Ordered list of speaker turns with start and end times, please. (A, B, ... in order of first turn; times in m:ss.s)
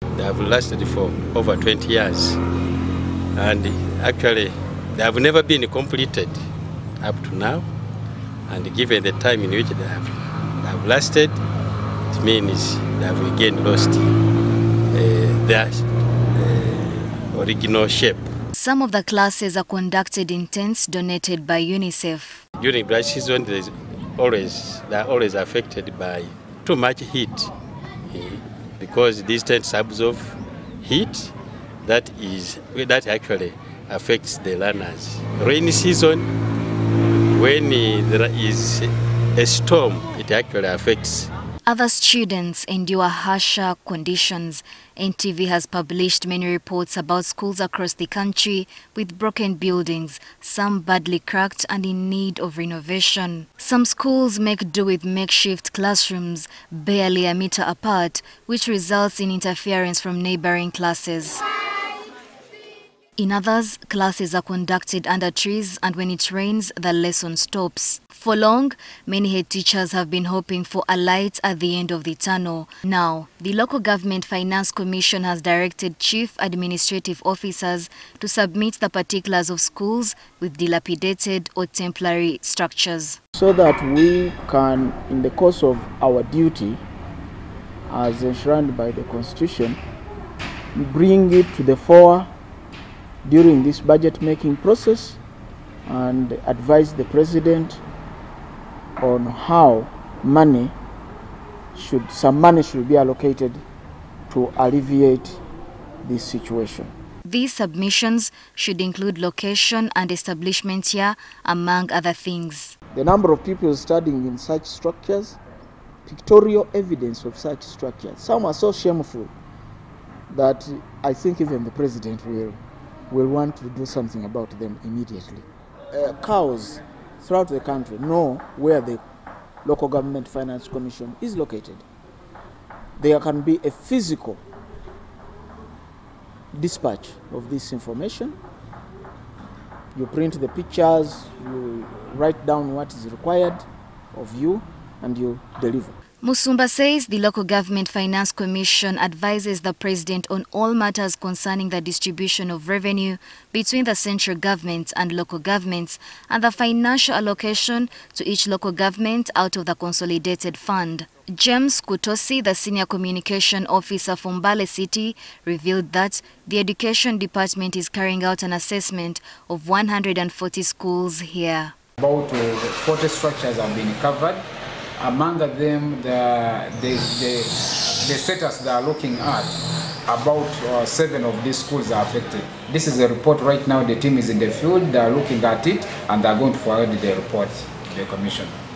0:00.2-0:02.4 A
0:03.4-0:06.4 A
0:07.0-0:07.7 A
0:08.5-0:11.4 A
0:12.1-0:14.1 A
0:14.9-0:15.8 A
0:16.4-0:18.2 A
0:18.5-0:22.4 B
0:22.6-0:27.5 A
0:28.1-0:36.3 A
0:37.3-0:41.3 A
0:41.7-1:01.4 B
1:03.2-1:23.2 B
1:23.4-1:26.8 C
1:27.9-1:29.8 C
1:30.8-1:32.3 C
1:33.2-1:35.2 C
1:35.9-1:37.8 C
1:39.0-1:40.8 C
1:41.7-1:43.6 C
1:44.3-1:45.4 C
1:46.0-1:46.9 C
1:47.3-1:52.8 B
1:52.9-1:55.4 C
1:56.0-1:59.3 C
2:00.3-2:02.6 C
2:03.1-2:09.0 C
2:09.6-2:11.9 C
2:13.0-2:14.4 C
2:16.5-2:18.4 C
2:20.0-2:26.0 C
2:26.2-2:51.7 B
2:52.0-2:54.4 D
2:55.0-3:08.5 D